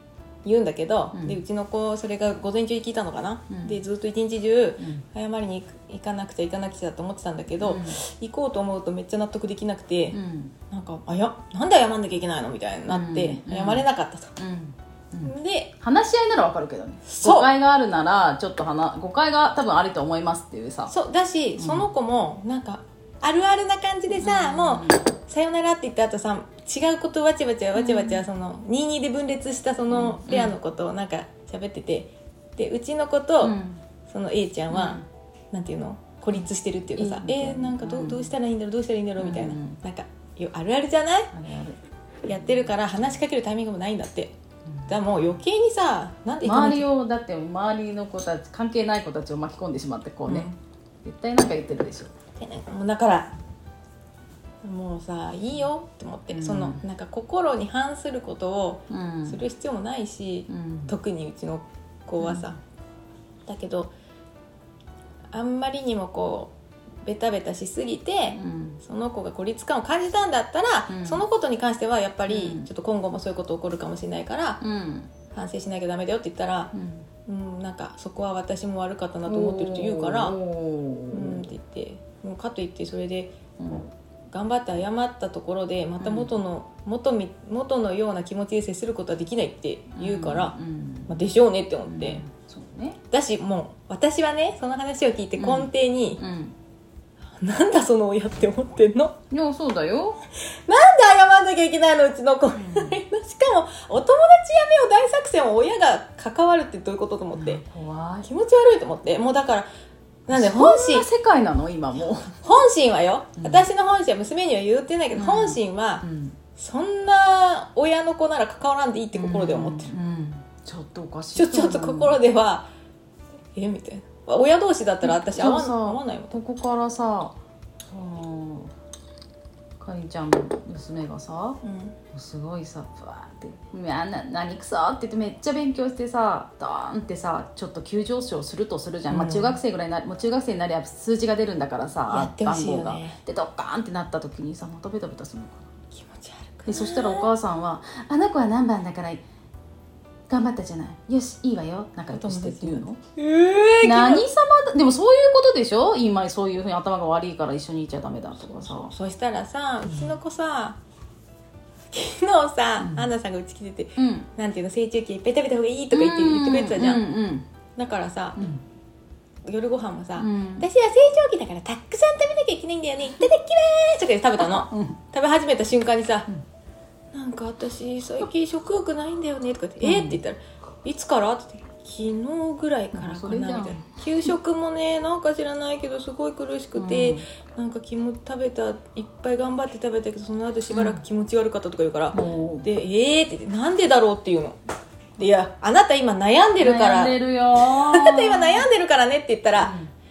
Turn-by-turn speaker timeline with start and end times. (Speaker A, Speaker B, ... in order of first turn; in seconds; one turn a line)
Speaker A: 0.4-10.2
Speaker B: 1.1-1.4
Speaker B: 3.5-3.8
Speaker B: 4.8-5.0
Speaker B: 7.6-8.0
Speaker B: 10.1-10.5
Speaker A: 10.7-14.3
Speaker B: 12.9-13.8
Speaker B: 14.4-20.9
Speaker A: 15.2-15.7
Speaker A: 17.1-17.5
Speaker A: 20.9-41.3
Speaker B: 21.6-21.9
Speaker B: 24.2-25.0
Speaker B: 27.7-28.2
Speaker B: 29.9-30.5
Speaker B: 33.4-33.8
Speaker B: 34.7-35.0
Speaker B: 37.0-38.3
Speaker B: 39.2-39.8
Speaker B: 41.3-41.8
Speaker A: 42.2-44.3
Speaker A: 44.9-46.9
Speaker B: 46.4-50.5
Speaker A: 50.3-50.5
Speaker B: 51.0-52.1
Speaker A: 52.4-53.3
Speaker A: 54.6-62.6
Speaker B: 56.3-56.8
Speaker B: 58.9-59.4
Speaker B: 60.5-60.9
Speaker B: 62.2-62.6
Speaker A: 63.5-63.9
Speaker A: 65.3-66.5
Speaker A: 67.0-74.6
Speaker B: 68.3-68.8
Speaker B: 70.9-71.2
Speaker B: 72.3-72.7
Speaker B: 74.6-75.1
Speaker A: 75.3-76.7
Speaker B: 76.7-77.0
Speaker A: 77.2-80.4
Speaker B: 79.2-81.5
Speaker A: 81.1-83.4
Speaker B: 83.6-83.9
Speaker A: 84.3-90.5
Speaker B: 86.0-86.3
Speaker B: 89.9-91.2
Speaker A: 91.1-92.2
Speaker B: 91.9-93.0
Speaker A: 93.1-96.2
Speaker B: 95.4-96.5
Speaker A: 97.4-99.2
Speaker B: 99.3-100.2
Speaker A: 100.7-107.6
Speaker B: 102.5-103.0
Speaker B: 107.3-108.3
Speaker A: 108.2-109.7
Speaker A: 110.3-111.1
Speaker B: 110.3-112.3
Speaker A: 112.4-116.0
Speaker B: 113.4-113.6
Speaker B: 115.1-116.4
Speaker A: 116.5-119.9
Speaker B: 119.1-122.2
Speaker A: 121.3-122.7
Speaker A: 123.5-126.4
Speaker B: 125.0-127.3
Speaker B: 127.9-128.7
Speaker B: 129.8-145.7
Speaker A: 131.6-131.9
Speaker A: 139.1-139.6
Speaker A: 142.1-143.2
Speaker A: 145.9-147.3
Speaker B: 146.7-149.2
Speaker B: 150.3-153.0
Speaker A: 152.1-154.3
Speaker B: 153.8-158.9
Speaker A: 158.4-160.8
Speaker A: 161.9-167.0
Speaker B: 162.8-163.0
Speaker B: 164.0-164.3
Speaker B: 165.9-167.4
Speaker A: 167.8-168.4
Speaker B: 168.4-168.6
Speaker A: 169.4-176.3
Speaker B: 170.2-170.7
Speaker B: 174.5-175.0
Speaker A: 177.1-194.6
Speaker B: 179.8-180.2
Speaker B: 182.9-183.9
Speaker B: 186.8-187.2
Speaker B: 190.7-191.0
Speaker B: 192.1-192.7
Speaker A: 195.2-199.7
Speaker B: 196.6-198.7
Speaker B: 199.6-199.9